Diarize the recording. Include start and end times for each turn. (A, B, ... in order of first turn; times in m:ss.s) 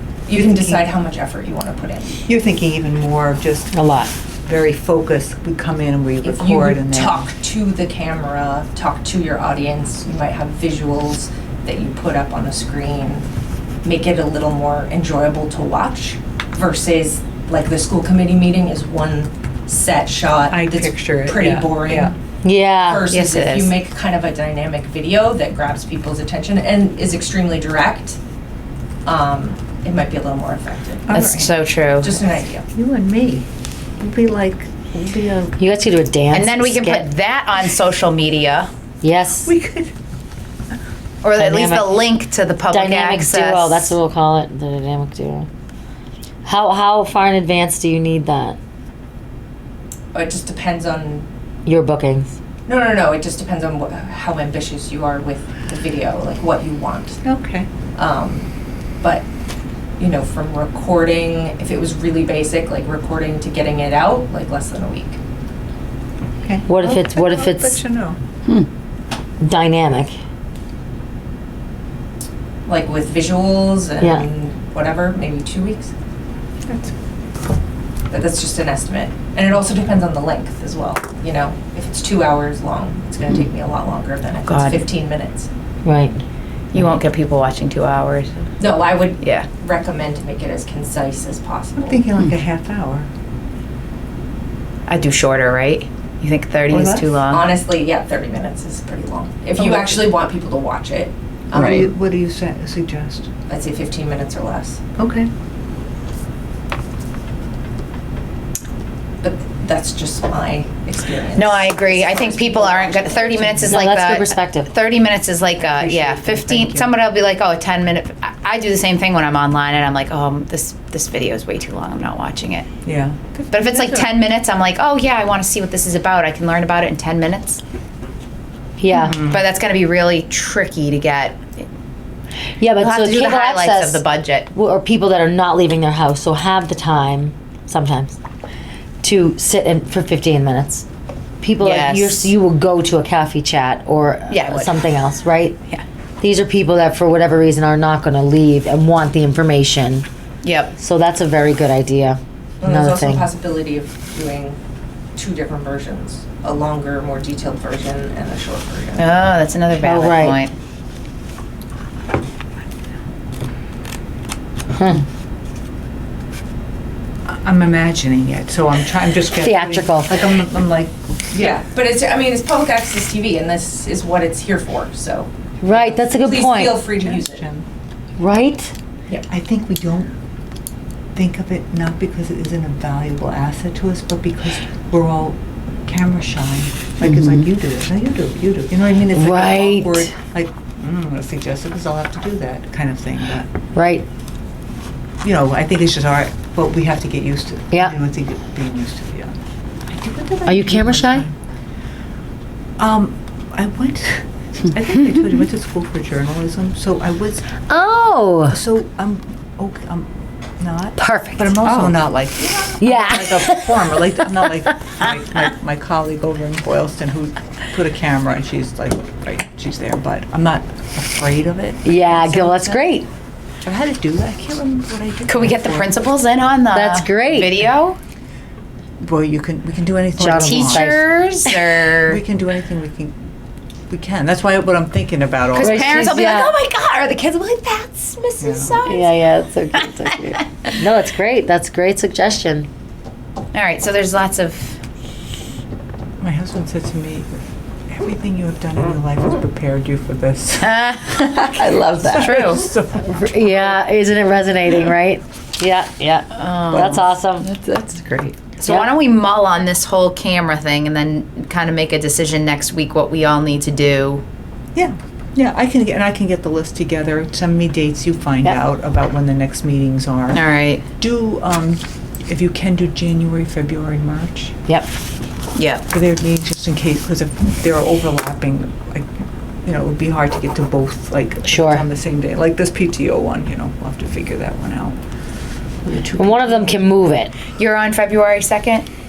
0:00.3-0:02.2 A
0:00.3-0:00.8 B
0:02.2-0:03.8 B
0:03.7-0:04.1 C
0:04.4-0:07.3 B
0:06.2-0:13.3 A
0:13.8-0:22.2 A
0:20.5-0:22.1 B
0:22.4-0:23.1 C
0:22.8-0:28.2 A
0:23.0-0:23.8 D
0:29.0-0:31.2 A
0:31.1-0:31.5 B
0:31.1-0:32.2 D
0:32.0-0:32.7 A
0:32.7-0:33.5 B
0:34.0-0:35.6 B
0:35.6-0:37.1 C
0:36.3-0:38.7 D
0:39.0-0:39.5 C
0:39.4-0:40.0 B
0:41.2-0:44.0 D
0:41.4-0:42.0 C
0:42.7-0:45.5 C
0:46.4-0:48.6 C
0:50.1-0:51.3 A
0:51.7-0:52.3 C
0:52.7-0:57.2 A
0:57.2-0:57.7 B
0:58.0-0:58.5 A
0:59.0-0:59.3 A
1:00.0-1:05.2 A
1:06.4-1:08.2 B
1:06.7-1:07.8 C
1:09.4-1:10.2 C
1:12.7-1:15.9 A
1:14.0-1:14.3 C
1:16.7-1:16.9 B
1:18.1-1:25.5 A
1:24.5-1:24.8 D
1:25.8-1:26.2 C
1:26.7-1:28.3 D
1:28.6-1:32.0 A
1:29.2-1:29.5 D
1:31.8-1:33.1 B
1:34.9-1:37.5 D
1:36.7-1:37.2 B
1:37.3-1:41.9 A
1:39.6-1:40.0 B
1:41.5-1:41.9 D
1:41.5-1:43.3 B
1:43.5-1:44.8 A
1:45.0-1:45.3 B
1:49.2-1:53.7 A
1:51.4-2:02.7 D
1:53.6-1:54.7 C
1:55.7-1:56.9 B
2:02.8-2:04.1 B
2:03.5-2:07.6 D
2:08.8-2:09.3 C
2:09.0-2:11.6 D
2:09.0-2:09.4 B
2:12.6-2:18.2 C
2:12.8-2:14.5 D
2:19.0-2:20.9 C
2:21.4-2:25.6 C
2:21.6-2:22.3 D
2:24.3-2:24.9 D
2:26.2-2:30.1 C
2:30.4-2:30.7 D
2:30.8-2:33.3 C
2:32.6-2:34.6 A
2:35.2-2:39.1 A
2:39.0-2:40.5 D
2:39.8-2:40.4 C
2:44.8-2:45.1 C
2:47.3-2:51.6 B
2:49.3-2:50.2 C
2:51.4-2:57.5 A
2:55.6-2:56.8 C
2:57.0-2:57.7 B
2:58.2-2:58.7 C
2:59.3-3:00.1 B
3:01.2-3:13.5 B
3:07.0-3:07.4 C
3:09.1-3:10.1 C
3:13.7-3:14.1 C
3:15.2-3:21.4 B
3:20.5-3:21.3 C
3:22.8-3:27.5 B
3:27.7-3:28.6 C
3:28.5-3:42.9 B
3:31.0-3:31.8 C
3:32.8-3:34.9 C
3:41.8-3:43.1 C
3:43.6-3:46.0 B
3:45.3-3:48.0 D
3:46.7-3:47.6 C
3:49.0-3:51.0 B
3:50.2-3:51.1 C
3:50.2-3:52.2 D
3:52.0-3:53.2 B
3:53.9-3:55.9 B
3:55.5-3:56.4 D
3:55.6-3:56.6 C
3:56.0-3:58.9 A
3:58.4-3:58.8 B
3:58.8-3:59.1 D
3:58.8-4:02.7 C
4:03.5-4:04.8 D
4:06.2-4:07.3 B
4:07.9-4:10.7 B
4:10.6-4:12.8 D
4:11.5-4:13.8 B
4:11.8-4:12.1 C
4:12.9-4:17.6 C
4:16.4-4:17.1 D
4:18.0-4:24.2 D
4:24.8-4:34.6 B
4:30.3-4:30.9 D
4:35.6-4:35.8 D
4:35.9-4:39.1 B
4:39.6-4:45.0 B
4:41.5-4:41.9 C
4:45.8-4:46.8 B
4:46.1-4:47.4 C
4:47.5-4:48.9 D